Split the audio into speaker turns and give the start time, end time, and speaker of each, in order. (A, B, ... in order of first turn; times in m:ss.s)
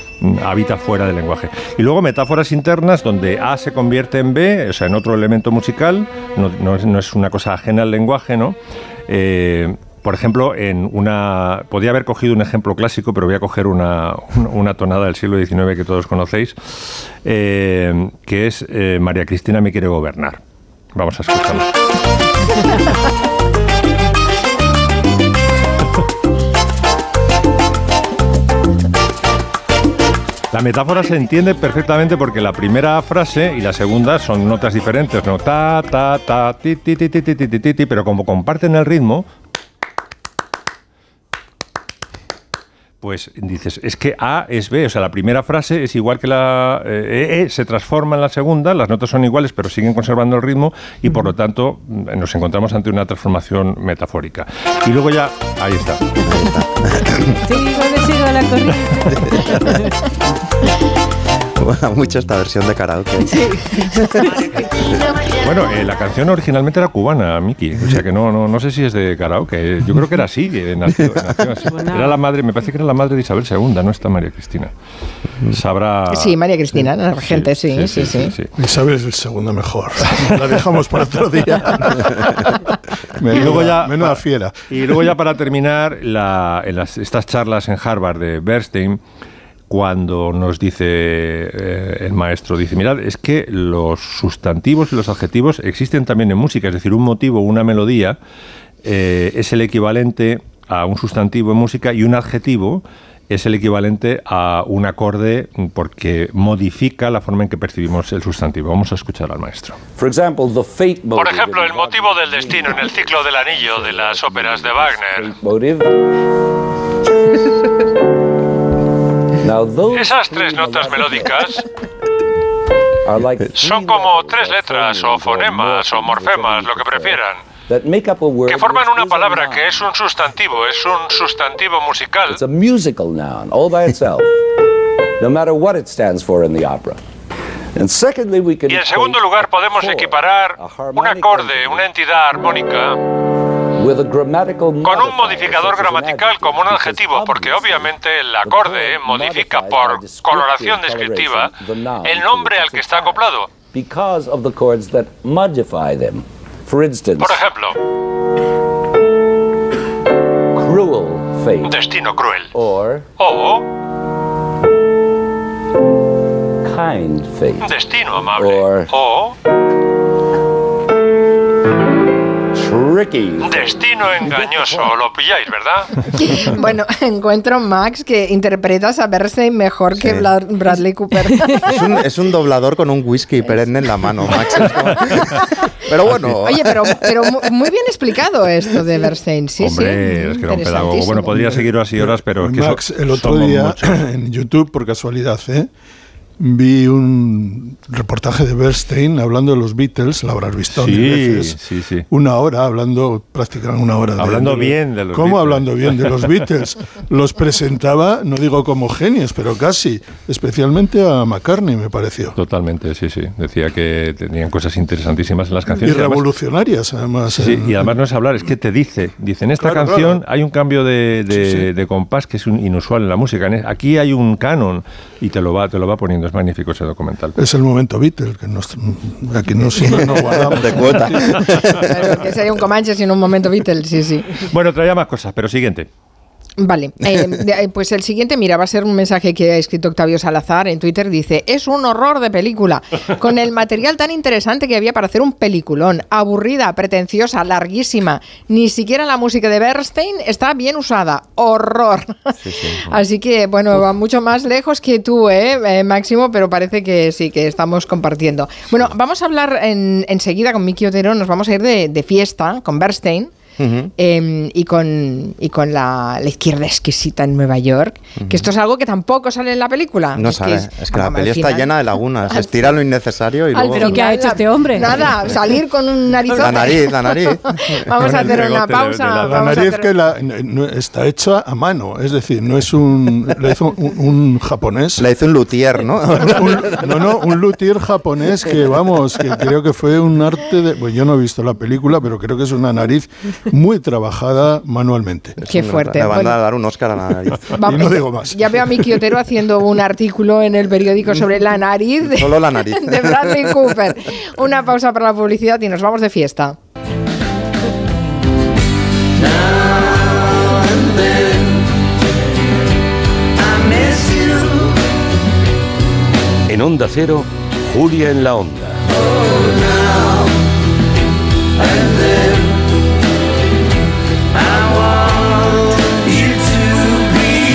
0:00.2-0:08.6 A
0:09.1-0:16.6 A
0:17.2-0:20.4 A
0:21.0-0:21.7 A
0:30.5-0:39.3 A
0:43.0-0:56.1 A
0:56.2-0:57.4 B
0:57.4-0:59.9 C
1:01.6-1:04.2 B
1:03.3-1:03.6 C
1:04.2-1:04.5 C
1:05.4-1:14.7 A
1:11.7-1:12.2 C
1:15.5-1:18.5 A
1:16.1-1:18.3 D
1:18.6-1:22.5 E
1:23.2-1:25.1 E
1:23.3-1:29.0 A
1:29.7-1:38.2 A
1:38.8-1:49.8 A
1:50.0-1:56.0 F
1:51.2-1:55.2 G
1:59.4-2:01.6 F
2:00.0-2:01.6 G
2:03.0-2:09.8 F
2:03.6-2:07.4 G
2:08.5-2:12.4 G
2:12.2-2:14.3 F
2:15.2-2:17.0 F
2:17.8-2:21.9 F
2:18.7-2:23.0 G
2:23.8-2:37.6 F
2:24.9-2:31.5 G
2:32.1-2:33.5 G
2:37.2-2:37.6 G
2:40.5-2:41.9 F
2:41.7-2:42.5 G
2:42.5-2:43.1 F
2:43.2-2:43.6 G
2:46.6-2:49.0 F
2:47.6-2:49.3 G
2:52.5-2:55.0 F
2:53.5-2:55.9 G
2:56.1-3:01.8 D
3:00.0-3:00.3 B
3:01.3-3:01.6 C
3:01.6-3:07.1 B
3:04.3-3:04.7 D
3:06.4-3:11.6 D
3:09.6-3:14.0 A
3:11.4-3:15.7 E
3:16.4-3:21.6 E
3:20.8-3:22.0 A
3:22.1-3:32.4 E
3:24.2-3:26.3 A
3:32.4-3:36.2 A
3:35.8-3:37.9 E
3:37.4-3:47.4 A
3:39.6-3:40.2 E
3:41.3-3:41.7 E
3:47.4-3:51.5 E
3:49.6-3:52.1 B
3:51.9-3:54.3 D
3:54.4-3:55.9 A
3:56.6-4:12.2 D
4:12.4-4:13.0 B
4:12.9-4:23.3 D
4:23.6-4:23.9 B
4:24.0-4:31.8 D
4:28.2-4:28.5 B
4:30.1-4:34.1 B
4:32.3-4:32.8 D
4:33.5-4:39.9 D
4:33.6-4:35.1 C
4:36.3-4:37.8 B
4:38.0-4:39.6 A
4:38.1-4:38.4 E
4:39.1-4:45.1 E
4:45.0-4:47.1 B
4:46.1-4:55.4 E
4:55.4-4:57.9 B
4:55.5-4:56.4 D
4:57.6-5:06.6 D
4:57.7-4:58.5 E
5:02.1-5:03.8 B
5:16.5-5:18.8 F